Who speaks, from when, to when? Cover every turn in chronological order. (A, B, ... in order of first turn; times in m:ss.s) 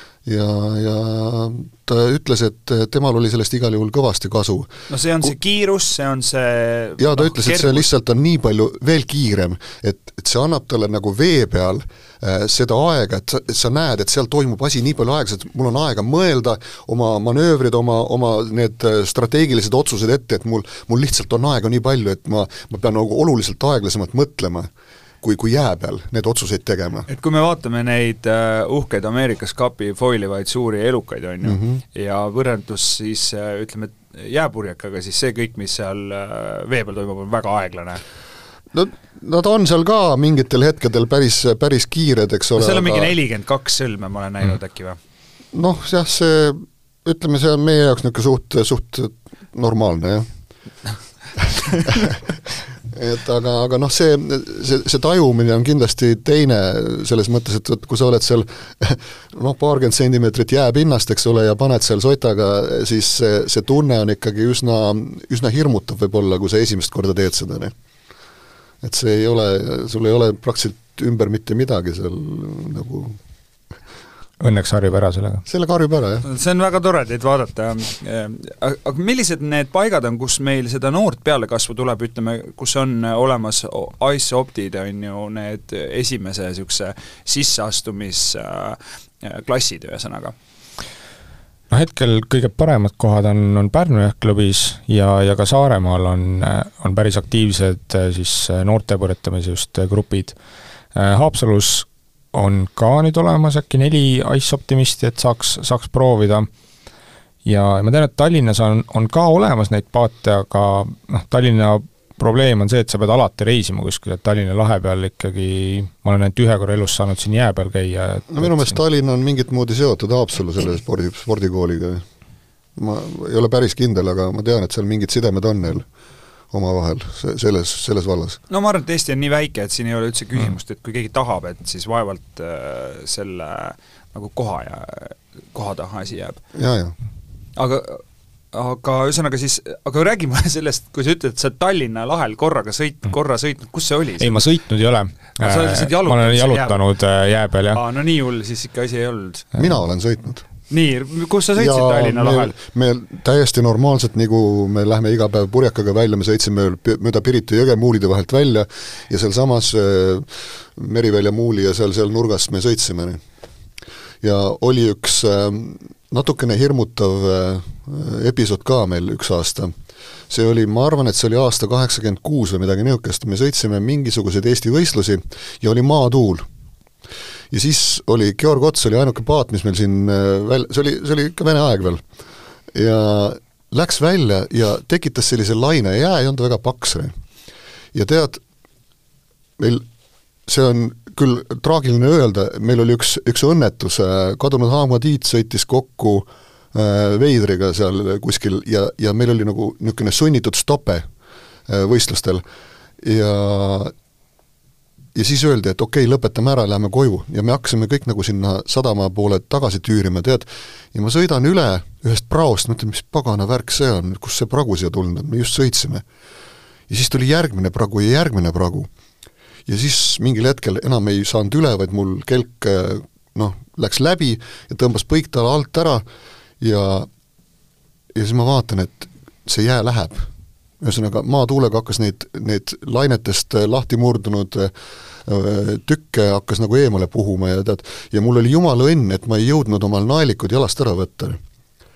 0:00.2-0:04.7 A
0:04.9-0:07.8 B
0:07.0-0:24.7 A
0:25.2-0:27.1 A
0:27.1-0:38.0 B
0:31.4-0:31.8 A
0:38.7-0:43.1 A
0:42.6-0:45.0 B
0:45.5-0:50.3 A
0:51.9-0:52.3 A
0:52.9-1:07.7 A
1:08.8-1:13.2 A
1:14.4-1:15.4 C
1:15.4-1:16.2 A
1:16.2-1:30.3 B
1:31.7-1:40.3 C
1:40.9-1:46.5 C
1:47.4-1:58.8 C
1:58.3-2:02.0 A
2:02.8-2:05.9 A
2:06.5-2:08.4 A
2:08.5-2:16.4 B
2:16.5-2:16.9 A
2:17.6-2:24.4 B
2:24.2-2:27.8 C
2:25.4-2:26.8 B
2:27.7-2:29.5 B
2:29.5-2:30.4 A
2:30.7-2:32.5 B
2:31.5-2:43.2 A
2:44.2-2:49.7 A
2:50.3-2:56.4 A
2:57.5-3:02.0 A
3:02.7-3:07.1 A
3:07.9-3:08.4 A
3:09.6-3:09.8 A
3:10.4-3:21.0 A
3:21.7-3:22.4 A
3:23.0-3:23.9 A
3:25.1-3:36.0 A
3:36.9-3:38.9 A
3:39.6-3:46.0 A
3:46.6-3:47.1 A
3:48.1-3:50.3 A
3:50.8-3:54.7 A
3:55.2-4:01.4 A